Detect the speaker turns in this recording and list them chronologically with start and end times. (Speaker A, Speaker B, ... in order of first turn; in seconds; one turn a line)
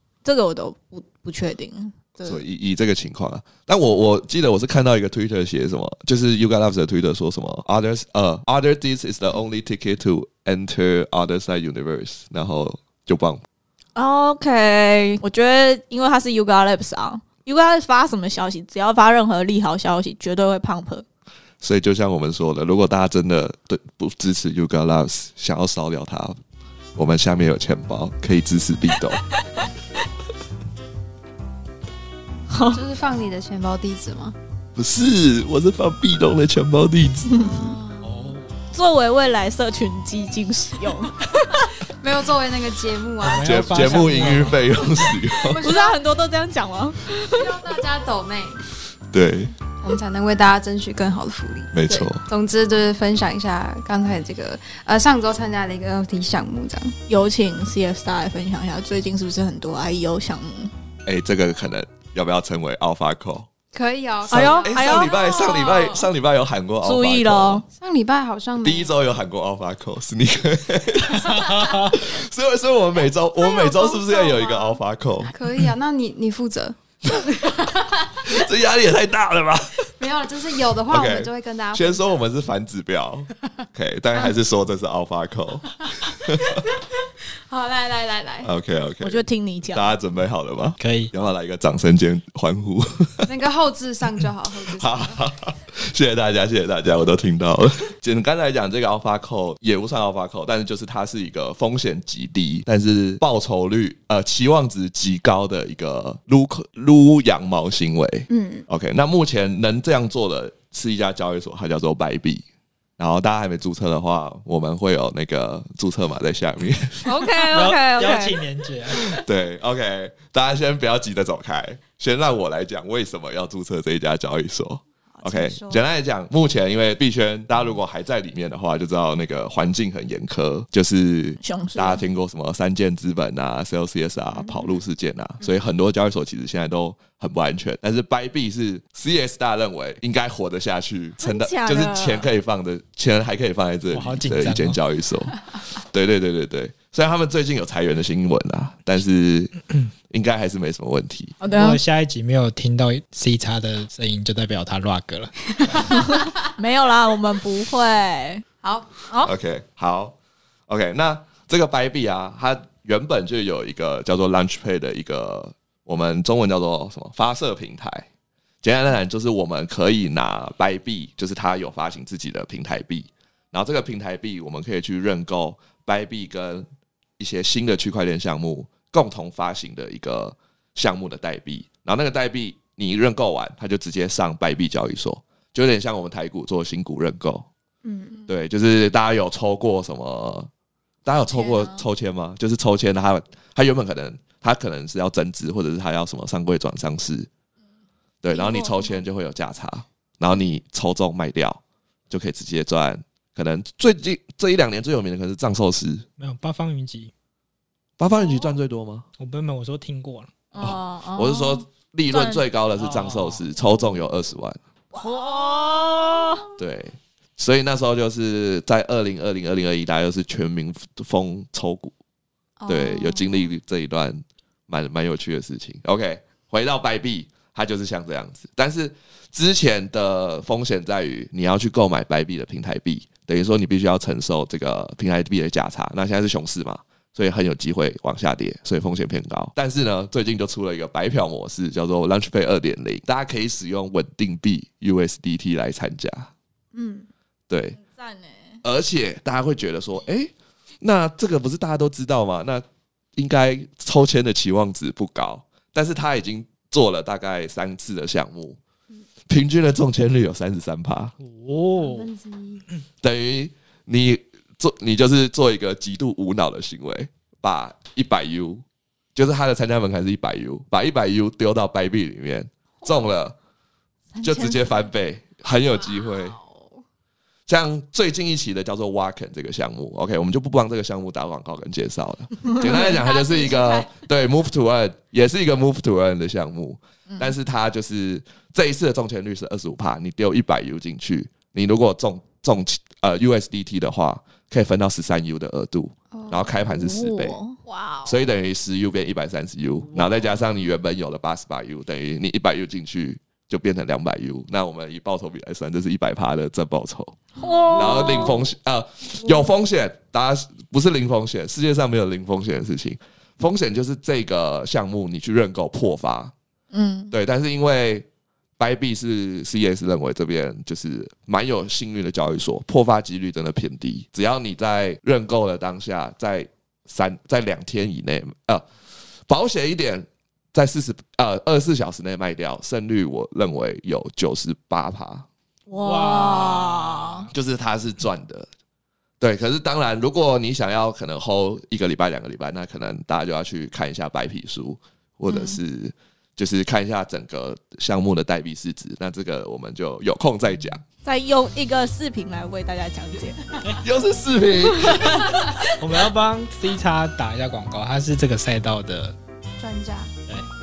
Speaker A: 0.2-2.4
Speaker B: 2.2-13.4
Speaker A: 14.0-21.1
Speaker B: 21.6-26.4
Speaker B: 26.9-29.2
Speaker A: 32.5-32.8
Speaker C: 32.7-34.4
Speaker B: 34.8-37.4
Speaker A: 37.3-37.7
Speaker C: 37.3-38.3
Speaker D: 38.0-38.5
Speaker A: 38.7-41.7
Speaker C: 41.8-46.0
Speaker D: 43.2-44.7
Speaker B: 43.3-45.6
Speaker A: 45.6-47.6
Speaker C: 47.3-48.6
Speaker B: 49.1-49.5
Speaker C: 49.8-57.0
Speaker B: 51.7-52.2
Speaker A: 57.1-60.7
Speaker B: 61.1-63.5
Speaker C: 63.7-66.1
Speaker B: 64.3-67.6
Speaker A: 64.3-65.2
Speaker A: 66.8-67.7
Speaker C: 67.7-68.9
Speaker B: 68.6-75.3
Speaker C: 71.2-72.0
Speaker D: 71.5-71.8
Speaker C: 73.4-78.5
Speaker B: 78.2-79.9
Speaker C: 80.0-82.1
Speaker B: 80.9-86.6
Speaker C: 86.3-86.9
Speaker C: 87.5-88.5
Speaker B: 88.4-93.3
Speaker A: 89.0-89.9
Speaker D: 90.8-91.1
Speaker C: 93.3-95.2
Speaker B: 94.7-112.4
Speaker C: 108.3-108.7
Speaker B: 113.0-117.3
Speaker A: 117.1-118.3
Speaker D: 117.5-119.2
Speaker B: 119.0-149.5
Speaker C: 125.1-125.8
Speaker A: 131.4-132.0
Speaker C: 134.3-134.7
Speaker A: 141.2-142.3
Speaker D: 143.9-144.8
Speaker B: 150.1-151.3
Speaker A: 151.4-151.8
Speaker D: 151.5-155.9
Speaker A: 155.9-158.4
Speaker C: 158.6-158.9
Speaker B: 159.2-160.2
Speaker B: 160.7-168.1
Speaker B: 168.6-176.7
Speaker B: 177.2-187.5
Speaker C: 187.8-188.2
Speaker B: 188.3-190.5
Speaker B: 191.1-197.3
Speaker A: 191.3-191.8
Speaker B: 198.2-206.1
Speaker A: 198.3-199.0
Speaker D: 206.2-207.1
Speaker B: 208.0-209.1
Speaker D: 209.2-210.3
Speaker A: 210.5-212.4
Speaker B: 210.6-214.6
Speaker D: 212.8-213.4
Speaker A: 214.9-216.5
Speaker C: 215.0-215.9
Speaker B: 216.6-221.9
Speaker C: 222.6-223.5
Speaker B: 222.7-246.3
Speaker C: 246.7-247.1
Speaker B: 247.5-247.8
Speaker A: 247.8-248.6
Speaker B: 248.6-252.6
Speaker B: 253.2-258.6
Speaker B: 259.3-261.1
Speaker D: 261.2-262.1
Speaker C: 261.8-262.6
Speaker B: 263.0-268.6
Speaker B: 269.1-273.4
Speaker A: 274.1-274.7
Speaker B: 274.2-276.4
Speaker C: 275.8-276.8
Speaker B: 277.5-297.4
Speaker C: 282.5-284.0
Speaker A: 287.1-287.3
Speaker C: 296.1-296.5
Speaker A: 296.7-297.6
Speaker C: 297.7-298.3
Speaker B: 298.1-307.2
Speaker A: 307.4-308.4
Speaker C: 307.7-308.1
Speaker B: 307.7-316.3
Speaker A: 316.7-317.1
Speaker B: 317.1-318.1
Speaker B: 318.6-328.7
Speaker B: 329.3-335.3
Speaker A: 335.7-337.2
Speaker D: 335.8-337.3
Speaker B: 337.3-338.5
Speaker B: 339.2-350.8
Speaker A: 345.3-345.6
Speaker A: 351.0-353.8
Speaker B: 353.8-355.2
Speaker A: 354.7-355.4
Speaker D: 355.8-359.1
Speaker C: 359.6-360.1